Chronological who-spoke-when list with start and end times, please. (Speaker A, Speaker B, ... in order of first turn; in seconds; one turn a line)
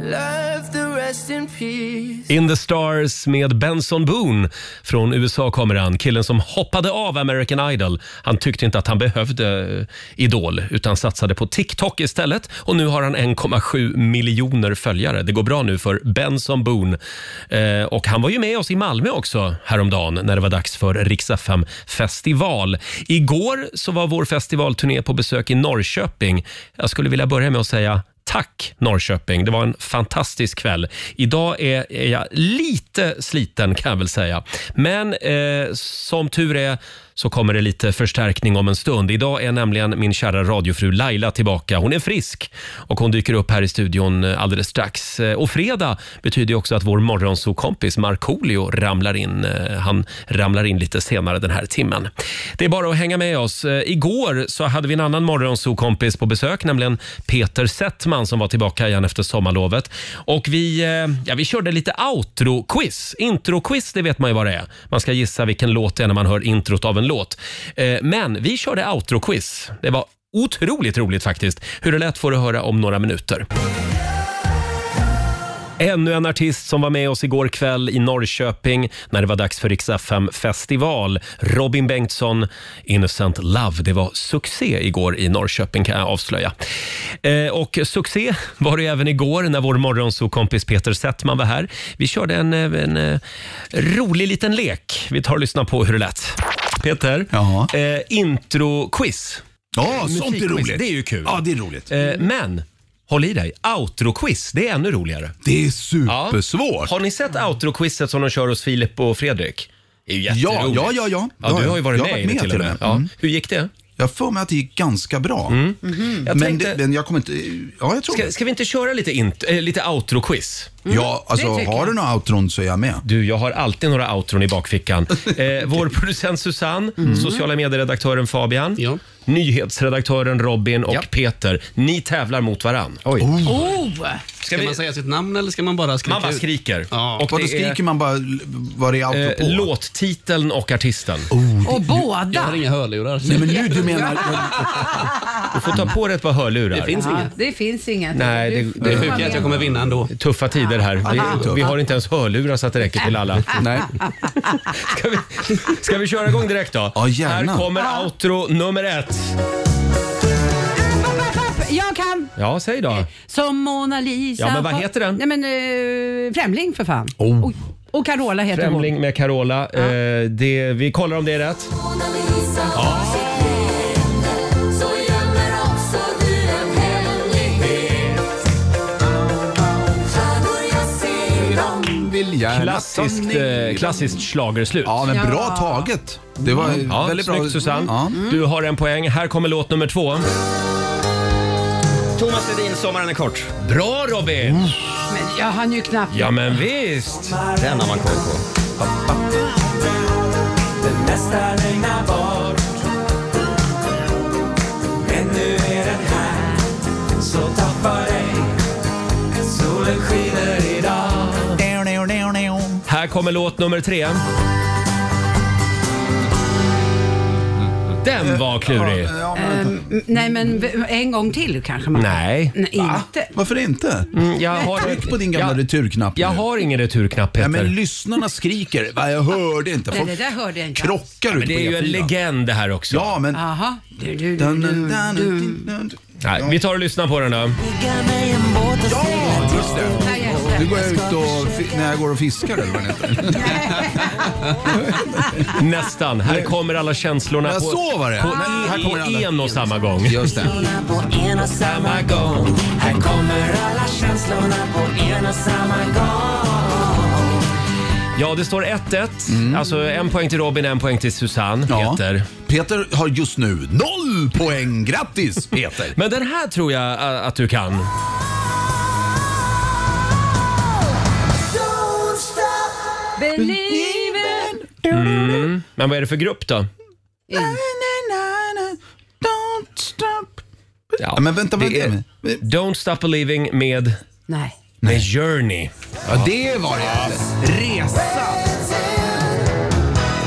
Speaker A: 0.1-1.0
Speaker B: 2.3-17.0
Speaker B: 17.5-73.5
Speaker B: 75.8-86.5
Speaker B: 87.2-93.2
Speaker B: 93.7-105.3
Speaker C: 97.3-97.7
Speaker C: 99.7-101.9
Speaker C: 105.4-106.9
Speaker B: 106.1-113.7
Speaker C: 110.3-113.1
Speaker C: 114.0-115.6
Speaker B: 115.5-116.8
Speaker D: 115.9-116.2
Speaker C: 116.3-118.3
Speaker B: 118.1-120.8
Speaker D: 120.8-121.9
Speaker C: 120.9-123.0
Speaker B: 123.0-133.0
Speaker E: 133.1-133.4
Speaker C: 133.2-133.6
Speaker D: 133.5-134.2
Speaker B: 134.4-134.8
Speaker F: 134.4-137.2
Speaker B: 136.1-137.8
Speaker C: 137.3-139.7
Speaker B: 139.1-141.3
Speaker C: 141.3-142.2
Speaker D: 141.6-142.6
Speaker F: 142.3-143.9
Speaker C: 143.2-144.7
Speaker D: 143.5-144.7
Speaker B: 145.5-147.0
Speaker F: 146.7-147.3
Speaker D: 147.0-149.5
Speaker B: 148.1-153.6
Speaker F: 148.8-150.1
Speaker C: 148.9-149.6
Speaker C: 151.0-151.7
Speaker C: 153.5-153.9
Speaker B: 154.7-159.4
Speaker C: 156.9-157.7
Speaker D: 157.8-158.1
Speaker D: 160.8-162.3
Speaker B: 162.4-163.1
Speaker D: 163.1-168.9
Speaker B: 164.4-165.2
Speaker C: 167.2-167.5
Speaker B: 168.5-171.7
Speaker A: 172.1-174.1
Speaker A: 174.8-178.0
Speaker B: 177.7-178.0
Speaker A: 180.1-181.4
Speaker C: 181.4-184.2
Speaker B: 182.5-185.1
Speaker C: 184.8-188.3
Speaker D: 185.1-185.9
Speaker B: 186.6-190.2
Speaker E: 192.2-193.5
Speaker B: 193.6-194.8
Speaker D: 195.1-196.6
Speaker B: 196.1-197.4
Speaker E: 197.6-198.4
Speaker B: 200.8-202.6
Speaker B: 205.0-206.7
Speaker B: 207.2-208.5
Speaker B: 209.4-211.6
Speaker C: 211.6-212.8
Speaker B: 212.9-214.2
Speaker B: 218.0-219.1
Speaker C: 218.2-219.8
Speaker D: 219.3-223.3
Speaker B: 221.9-222.6
Speaker C: 222.7-226.4
Speaker B: 224.1-225.6
Speaker B: 226.2-227.7
Speaker C: 227.4-230.2
Speaker D: 229.9-231.0
Speaker C: 230.7-232.1
Speaker B: 231.3-233.2
Speaker C: 232.9-233.5
Speaker D: 233.3-235.7
Speaker C: 234.3-236.6
Speaker B: 236.2-237.6
Speaker A: 237.6-241.5
Speaker C: 238.9-245.0
Speaker D: 240.0-240.8
Speaker D: 243.3-244.1
Speaker B: 245.5-250.4
Speaker C: 246.3-246.5
Speaker C: 247.4-250.6
Speaker A: 250.4-256.9
Speaker B: 251.4-256.9
Speaker B: 258.2-262.3
Speaker C: 259.3-259.6
Speaker C: 261.7-265.9
Speaker B: 265.9-267.9
Speaker D: 273.2-274.5
Speaker C: 273.4-275.5
Speaker B: 274.9-276.7
Speaker D: 277.3-277.6
Speaker C: 277.3-280.4
Speaker B: 281.0-284.0
Speaker C: 281.1-282.4
Speaker D: 284.3-284.6
Speaker C: 284.8-285.1
Speaker B: 284.9-285.7
Speaker C: 286.1-288.6
Speaker D: 288.7-289.1